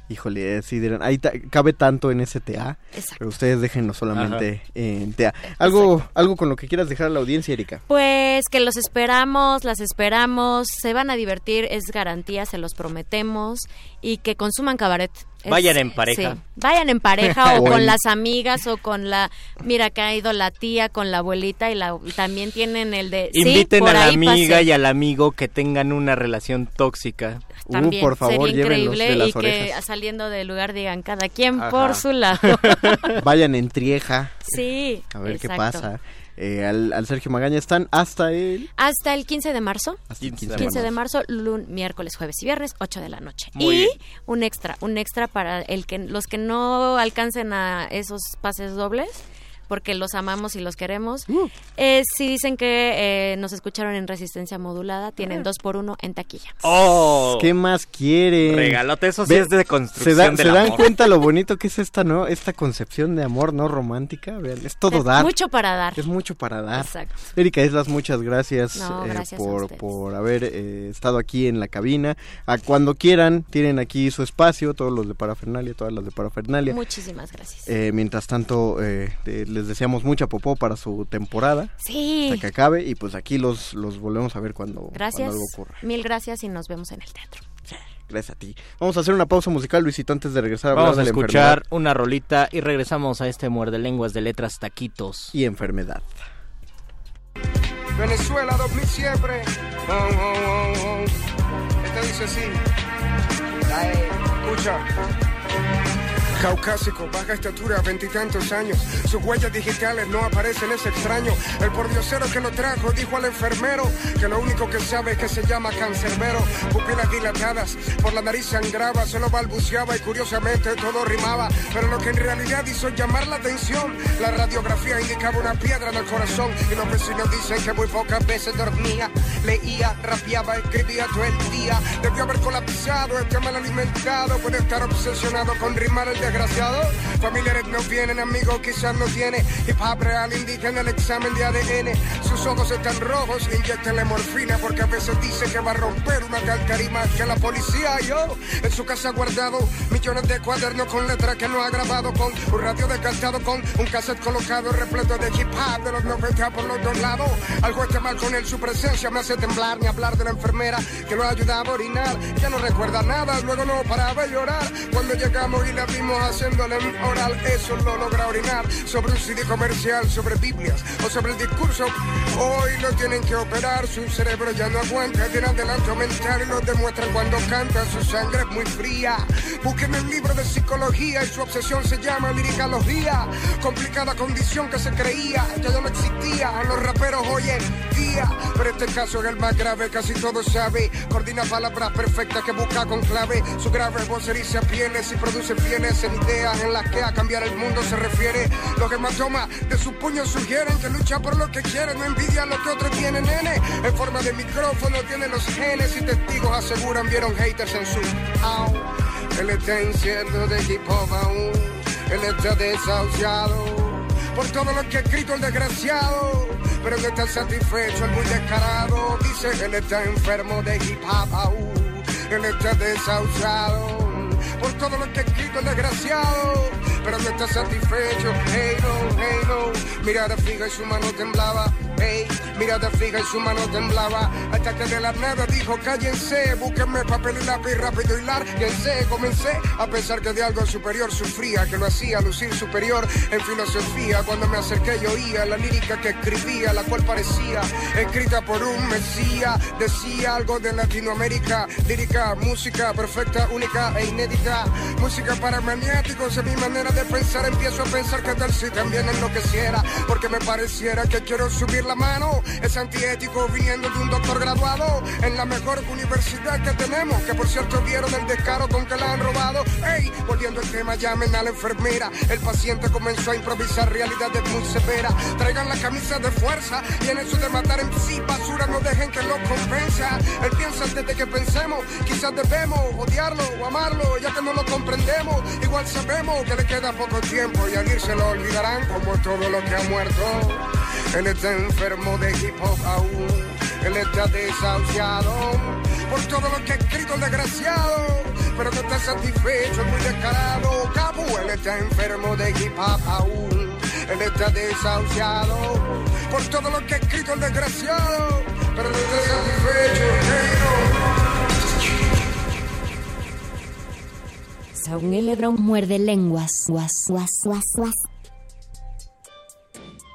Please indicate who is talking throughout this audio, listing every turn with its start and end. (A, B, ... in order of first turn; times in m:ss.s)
0:00.1-0:07.8 A
0:04.1-0:04.4 B
0:05.6-0:05.9 C
0:07.9-0:24.7 C
0:15.5-0:16.4 B
0:17.5-0:18.0 A
0:17.5-0:17.8 B
0:23.3-0:27.4 B
0:27.6-0:33.0 C
0:27.6-0:29.8 A
0:31.6-0:32.0 A
0:33.2-0:34.6 A
0:34.5-0:35.9 C
0:35.1-0:38.7 A
0:38.8-0:56.6 C
0:40.1-0:40.9 A
0:40.2-0:40.8 B
0:43.6-0:43.9 A
0:56.6-0:57.5 B
0:57.3-1:05.3 A
0:58.5-1:01.0 B
1:04.9-1:06.0 C
1:05.9-1:16.8 A
1:06.7-1:07.1 C
1:08.7-1:09.9 C
1:16.6-1:17.7 C
1:17.6-1:21.7 A
1:21.8-1:22.4 C
1:22.3-1:25.8 A
1:24.9-1:27.4 C
1:27.7-1:31.6 A
1:30.7-1:35.3 B
1:35.3-1:36.2 A
1:38.0-1:41.1 D
1:41.8-1:42.6 D
1:43.7-1:44.8 D
1:46.4-5:11.1 D
5:14.7-5:18.0 E